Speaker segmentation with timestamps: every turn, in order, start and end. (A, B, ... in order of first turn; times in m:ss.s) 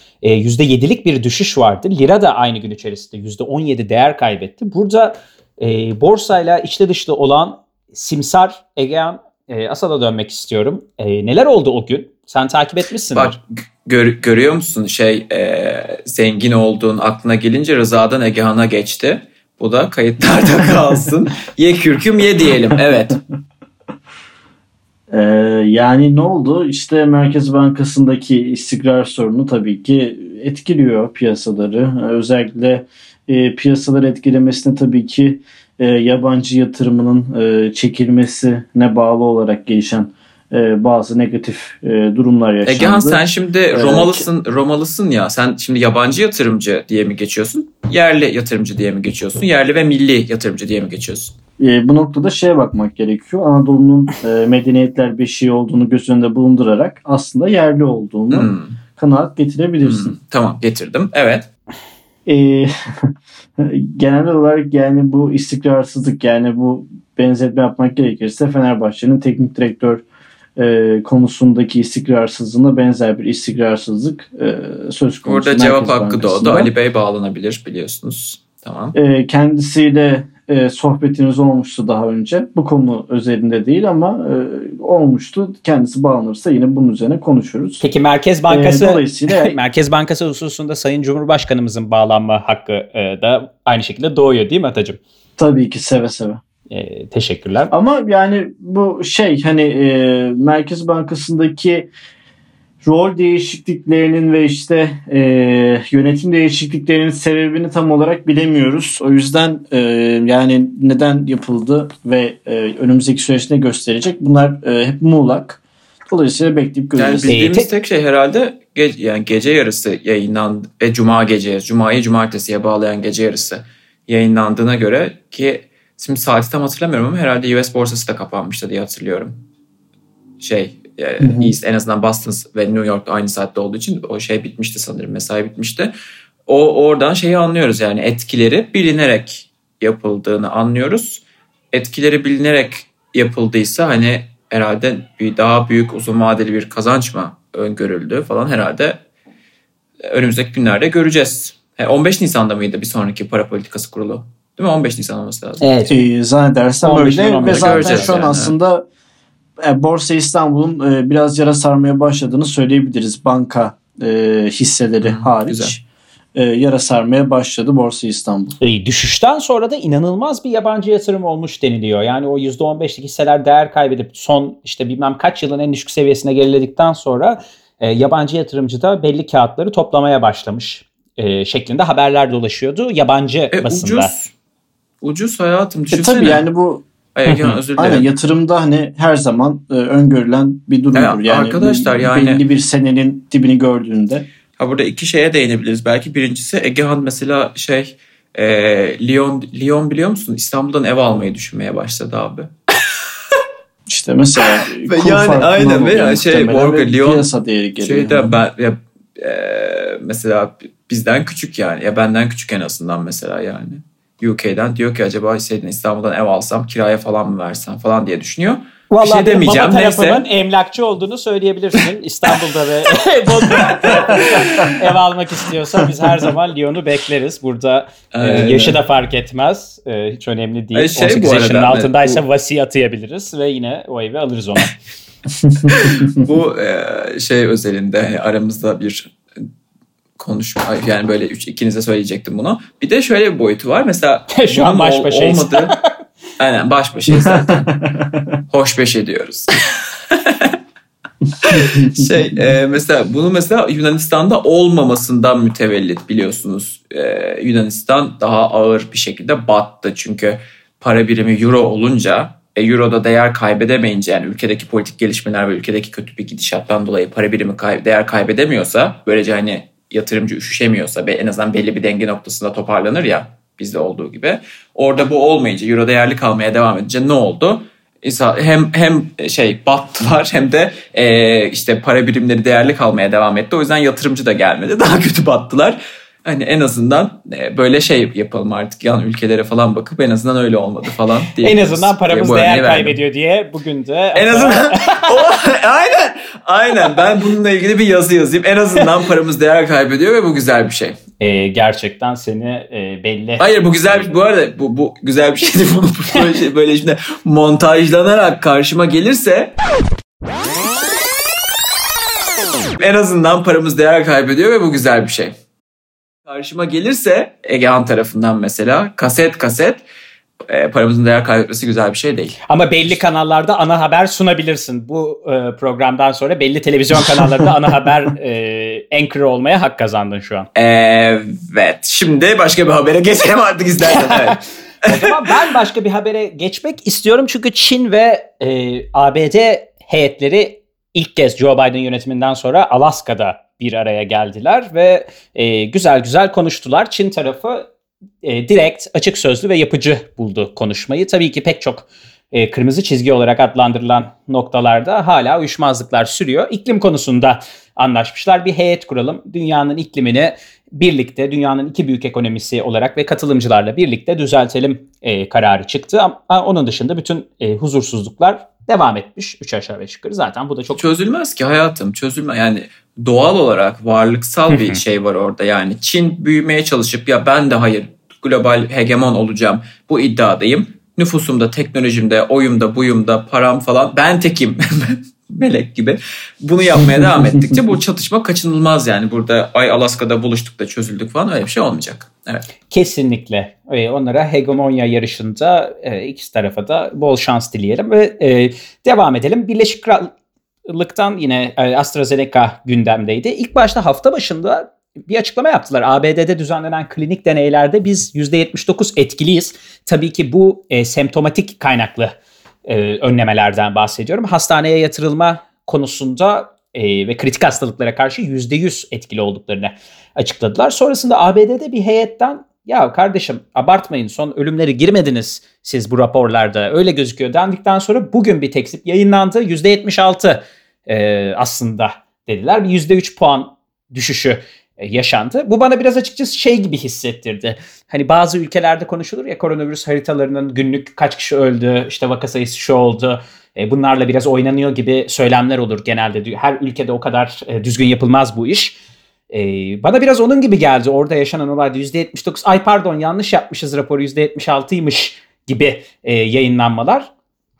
0:00.2-0:13.3 A
0:13.1-0:23.2 B
0:25.1-0:44.2 C
0:42.6-0:51.3 B
0:51.6-1:00.1 C
0:58.3-0:58.8 B
0:59.8-1:01.5 B
1:02.2-1:10.0 C
1:10.6-1:16.7 C
1:15.2-1:18.9 B
1:18.9-1:27.8 C
1:27.8-1:35.0 A
1:28.5-1:29.6 C
1:35.4-1:36.4 C
1:36.7-1:37.7 A
1:37.7-1:41.9 C
1:42.8-1:55.6 C
1:56.1-1:57.3 C
1:57.0-2:09.4 B
1:57.3-1:57.7 A
2:10.4-2:15.9 B
2:11.2-2:11.5 C
2:16.5-2:29.0 B
2:30.0-2:35.9 B
2:35.6-2:36.0 A
2:35.9-2:38.8 C
2:36.8-2:38.1 A
2:37.4-2:38.5 B
2:39.6-2:45.8 C
2:45.0-2:45.8 B
2:46.3-2:48.6 C
2:48.6-3:04.1 A
3:03.5-3:04.3 B
3:05.0-3:06.4 B
3:05.9-3:14.3 C
3:07.1-3:08.1 B
3:10.9-3:12.4 B
3:14.6-3:22.5 B
3:23.9-3:28.3 C
3:24.8-3:40.2 B
3:38.9-3:54.7 A
3:43.4-3:44.8 B
3:48.1-3:48.8 B
3:50.7-3:52.2 B
3:55.6-3:59.4 B
4:00.2-4:05.8 B
4:04.3-4:05.9 A
4:06.4-4:07.8 B
4:07.2-4:08.2 C
4:08.5-4:09.6 B
4:10.1-4:10.6 B
4:11.4-4:53.0 B
4:11.6-4:12.0 C
4:51.4-4:55.2 A
4:54.1-5:01.0 B
5:01.2-5:03.4 A
5:03.4-5:09.5 B
5:12.8-5:15.3 B
5:16.2-5:19.8 B
5:20.5-5:22.4 B
5:22.5-5:30.5 A
5:30.5-5:35.1 B
5:34.0-5:34.3 A
5:34.8-5:47.7 A
5:48.2-6:10.8 A
6:10.7-6:32.5 B
6:14.5-6:14.8 A
6:32.7-6:40.1 A
6:40.7-6:52.1 A
6:52.6-7:28.8 A
7:29.3-7:37.1 A